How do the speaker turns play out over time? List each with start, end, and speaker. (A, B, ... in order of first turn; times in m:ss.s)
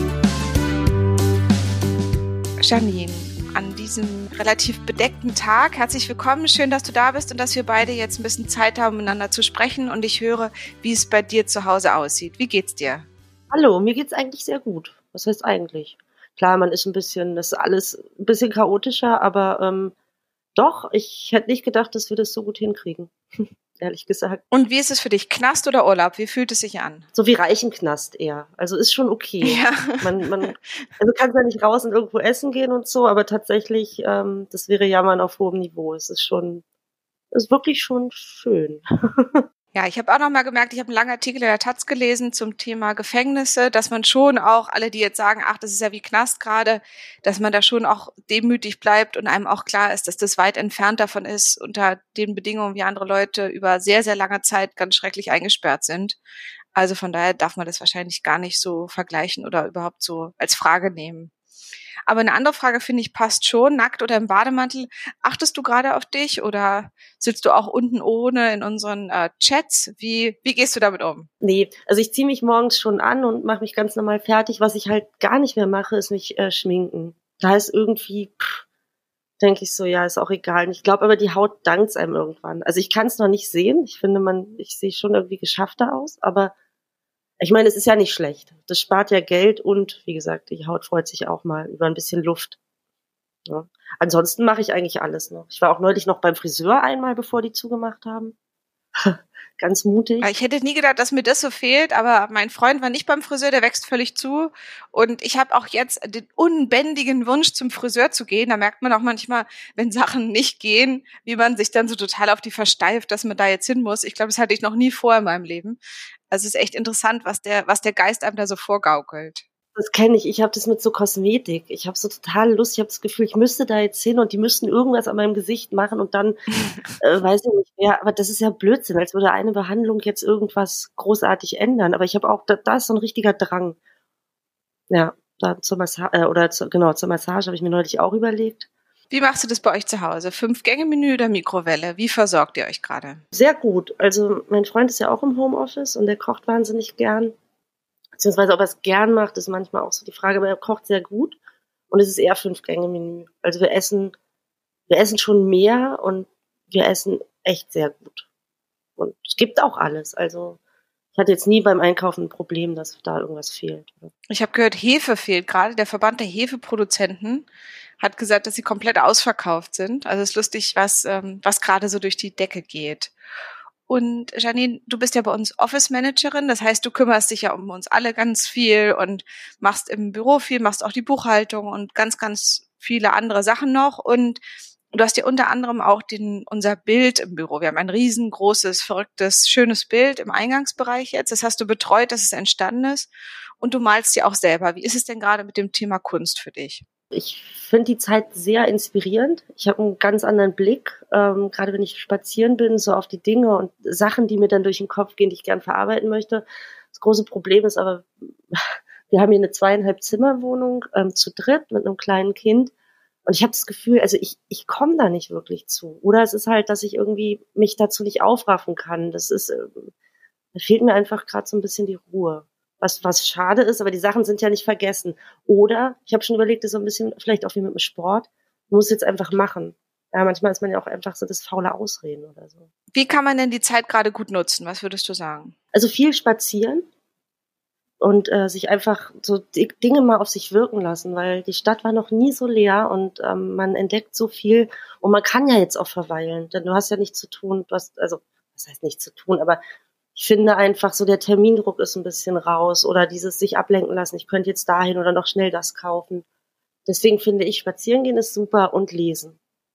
0:02.6-0:13.1 A
0:13.5-0:19.9 B
0:20.6-0:23.1 B
0:23.8-0:24.4 B
0:24.5-0:27.1 A
0:27.2-0:36.6 B
0:29.4-0:30.6 A
0:37.3-0:39.4 B
0:39.7-0:56.2 A
0:56.8-1:01.3 A
1:02.1-1:11.3 A
1:11.4-1:18.6 B
1:19.4-1:26.5 B
1:27.4-1:32.6 B
1:33.5-1:38.4 B
1:39.0-1:40.3 B
1:40.2-1:55.8 A
1:56.3-1:59.4 A
1:59.8-2:06.4 B
2:07.0-2:13.8 B
2:14.9-2:18.7 B
2:19.1-2:23.2 A
2:23.3-2:27.3 B
2:28.2-2:31.4 B
2:31.9-2:34.1 B
2:34.9-2:38.3 B
2:39.0-2:40.6 B
2:41.2-2:44.1 B
2:44.3-2:47.5 A
2:48.0-2:53.1 A
2:53.9-3:13.1 A
3:13.6-3:16.8 A
3:17.1-3:28.6 B
3:29.1-3:32.7 B
3:33.3-3:39.9 B
3:40.6-3:52.7 B
3:52.9-3:55.5 A
3:55.7-3:56.8 B
3:58.0-4:09.6 B
4:10.2-4:16.2 B
4:16.9-4:19.4 B